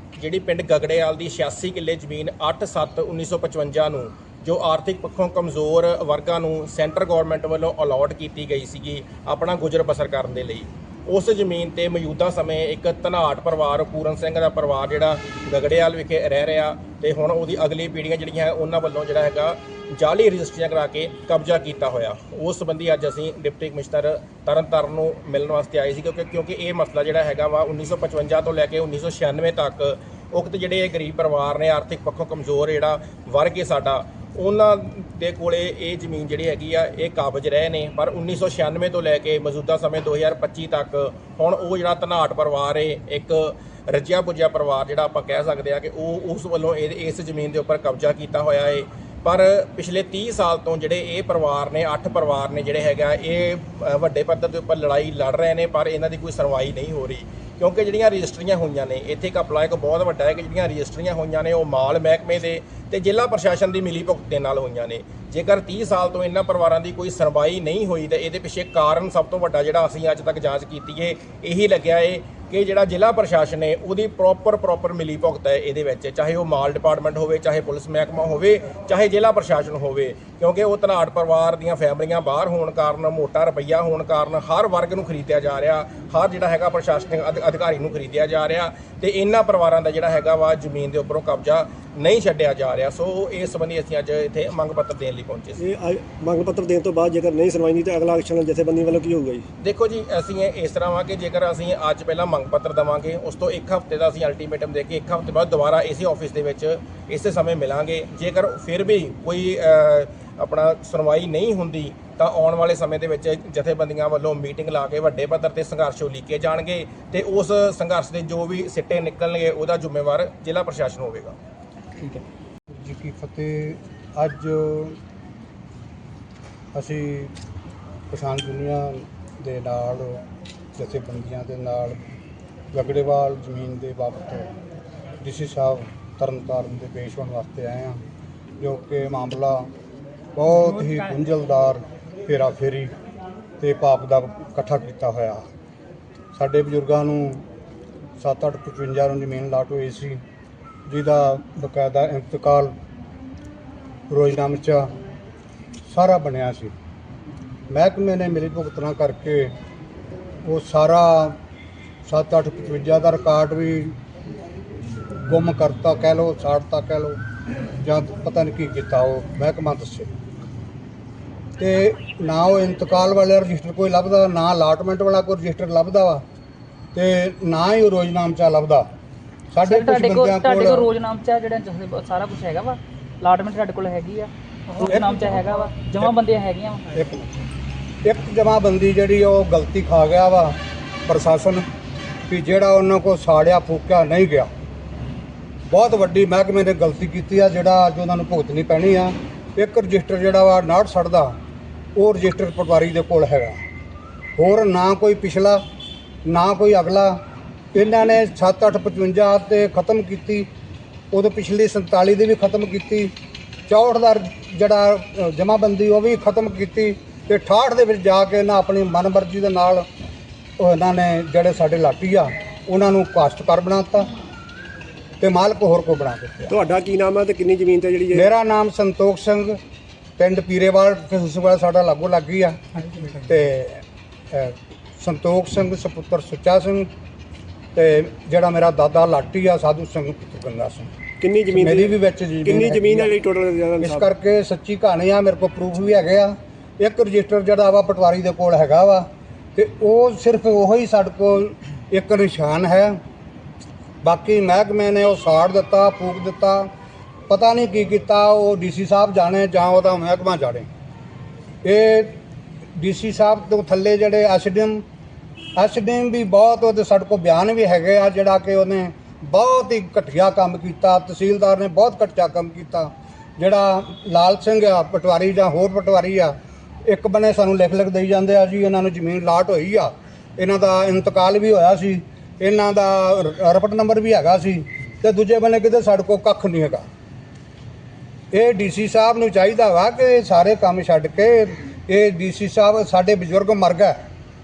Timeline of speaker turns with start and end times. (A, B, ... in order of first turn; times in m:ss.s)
0:00.2-1:35.6 A
1:35.6-1:39.4 B
1:39.6-2:01.4 A
2:02.8-2:05.0 C
2:06.8-2:07.3 C
2:08.1-2:10.2 C
2:10.8-2:12.1 C
2:12.7-2:14.5 C
2:15.2-2:18.0 C
2:18.6-2:19.7 C
2:20.4-2:22.9 C
2:23.6-2:25.5 C
2:26.4-2:27.4 C
2:28.2-2:30.2 C
2:30.9-2:32.7 C
2:34.1-2:34.9 C
2:35.9-2:36.7 C
2:37.7-2:39.5 C
2:40.4-2:41.4 C
2:42.1-2:44.0 C
2:45.2-2:47.2 C
2:47.8-2:50.1 C
2:51.6-2:56.2 C
2:56.9-2:58.9 C
2:59.5-3:00.9 C
2:59.6-3:06.9 D
3:04.8-3:05.3 C
3:06.9-3:07.4 C
3:08.0-3:11.6 C
3:12.3-3:14.5 C
3:15.7-3:21.4 C
3:22.0-3:23.6 C
3:24.4-3:25.6 C
3:26.3-3:27.2 C
3:27.7-3:30.5 C
3:31.1-3:33.1 C
3:33.7-3:39.9 C
3:40.6-3:44.1 C
3:45.2-3:46.6 C
3:46.5-3:48.3 B
3:48.1-3:49.6 C
3:50.2-3:56.9 C
3:57.8-4:00.9 C
4:01.2-4:01.9 B
4:01.5-4:03.2 C
4:02.4-4:04.1 B
4:03.8-4:13.0 C
4:14.0-4:16.7 C
4:17.3-4:20.7 C
4:21.6-4:22.2 C
4:22.8-4:24.8 C
4:25.6-4:46.8 C
4:48.3-4:54.0 C